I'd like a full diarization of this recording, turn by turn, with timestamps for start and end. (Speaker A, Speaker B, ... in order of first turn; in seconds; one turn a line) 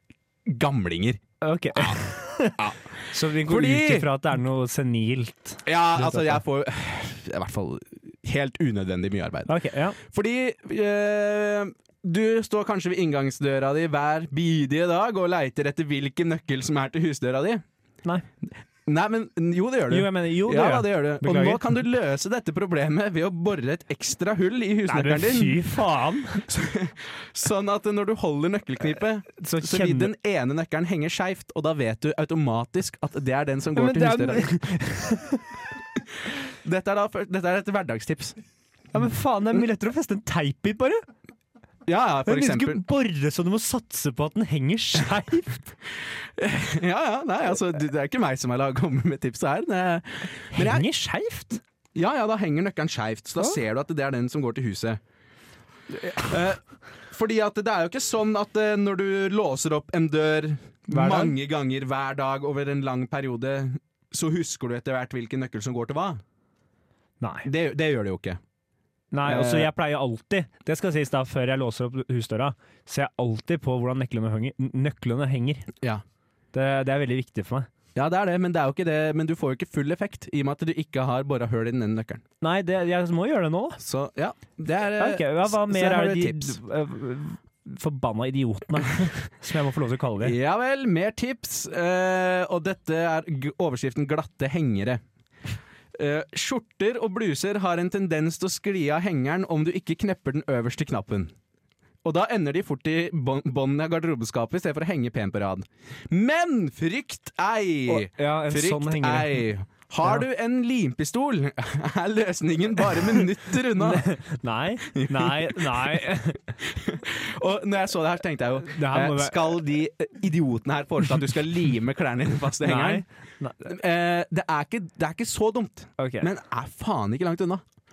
Speaker A: 0.5-1.2
Speaker B: 1.4-6.4
Speaker A: 1.7-2.8
Speaker A: 3.4-4.1
Speaker A: 5.7-17.6
Speaker B: 9.5-10.0
Speaker A: 18.9-25.6
Speaker B: 19.9-21.8
Speaker B: 24.9-26.4
Speaker A: 26.4-34.5
Speaker B: 29.4-30.1
Speaker B: 33.7-35.5
Speaker A: 36.6-38.4
Speaker B: 38.9-41.0
Speaker A: 41.9-42.8
Speaker B: 42.3-45.7
Speaker A: 46.4-50.9
Speaker B: 50.5-51.6
Speaker A: 52.0-55.0
Speaker A: 56.1-66.2
Speaker B: 60.9-61.4
Speaker B: 67.2-67.5
Speaker A: 67.5-68.4
Speaker B: 69.1-75.7
Speaker A: 69.3-69.7
Speaker B: 76.5-77.7
Speaker A: 78.0-82.2
Speaker B: 82.4-83.8
Speaker A: 83.8-86.6
Speaker B: 85.0-90.4
Speaker A: 90.2-95.0
Speaker A: 96.0-101.3
Speaker A: 102.0-114.1
Speaker B: 107.9-109.5
Speaker B: 113.8-116.5
Speaker A: 114.9-123.0
Speaker B: 118.6-119.6
Speaker B: 122.6-123.7
Speaker A: 123.7-127.6
Speaker B: 126.0-126.3